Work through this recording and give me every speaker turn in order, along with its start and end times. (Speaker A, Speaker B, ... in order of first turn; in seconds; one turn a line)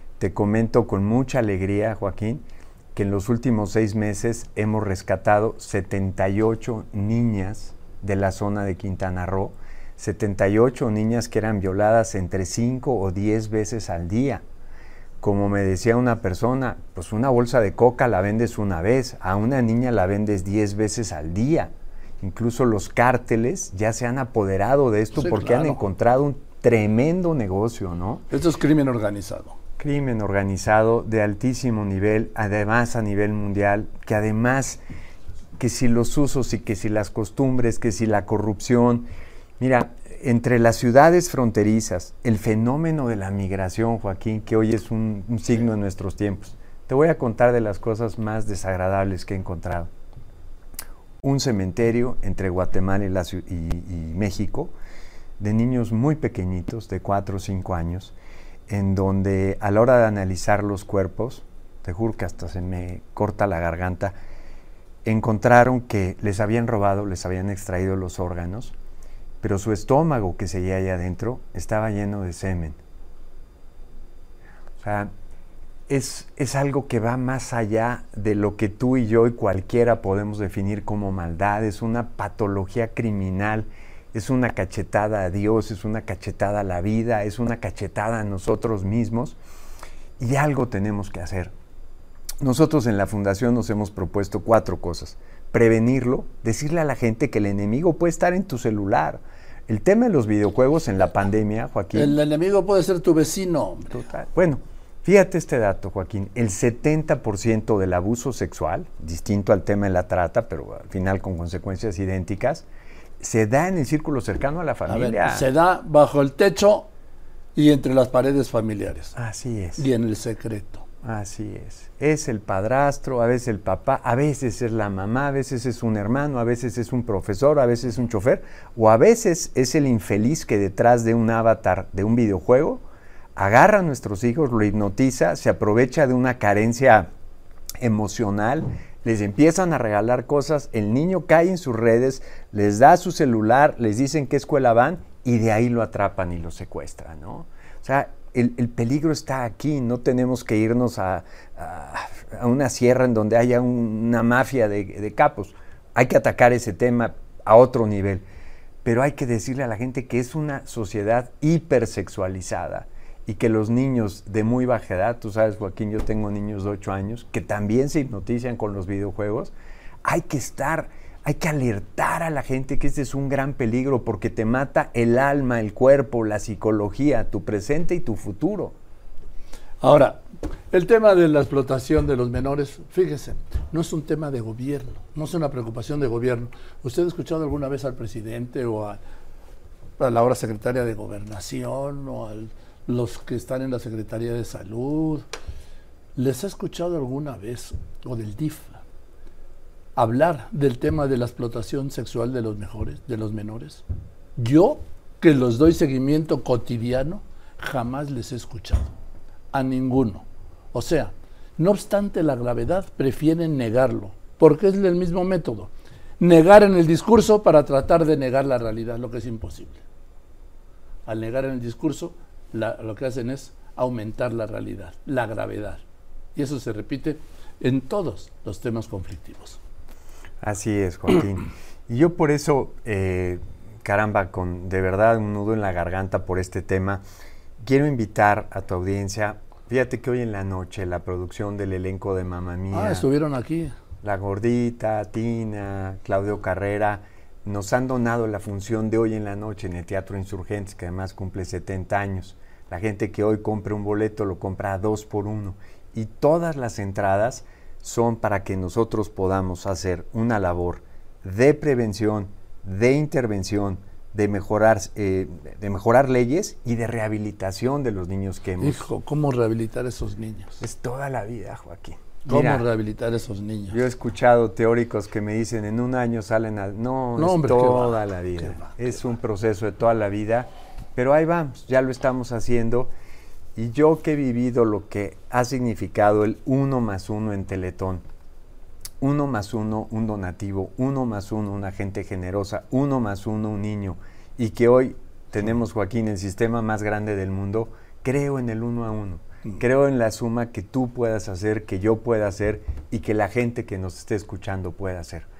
Speaker A: 0.2-14.4
Speaker A: 15.2-28.2
Speaker B: 25.1-25.8
Speaker B: 28.3-29.6
Speaker A: 29.8-34.8
Speaker A: 35.6-39.1
Speaker A: 39.6-49.9
Speaker A: 51.2-54.7
Speaker A: 55.4-58.2
Speaker A: 58.7-64.1
Speaker A: 65.0-68.8
Speaker A: 69.4-72.8
Speaker A: 74.8-75.1
Speaker A: 75.9-89.4
Speaker A: 90.2-91.5
Speaker A: 92.4-102.1
Speaker B: 101.9-104.0
Speaker A: 103.9-112.7
Speaker A: 113.2-115.5
Speaker B: 114.9-116.9
Speaker B: 117.5-119.1
Speaker A: 119.1-119.8
Speaker B: 119.8-120.8
Speaker A: 121.0-132.8
Speaker A: 133.4-137.1
Speaker A: 137.8-158.2
Speaker A: 158.8-169.5
Speaker A: 170.0-178.8
Speaker B: 179.8-189.0
Speaker B: 190.0-195.2
Speaker B: 196.2-198.8
Speaker B: 199.9-203.8
Speaker B: 204.4-208.9
Speaker B: 209.5-219.8
Speaker B: 221.1-225.8
Speaker B: 226.3-229.6
Speaker A: 230.4-237.0
Speaker A: 237.6-243.1
Speaker B: 242.7-243.7
Speaker A: 244.0-268.9
Speaker B: 268.6-270.6
Speaker A: 270.6-272.7
Speaker B: 272.2-273.8
Speaker A: 273.7-282.9
Speaker B: 277.2-278.7
Speaker A: 283.6-288.0
Speaker A: 289.0-305.3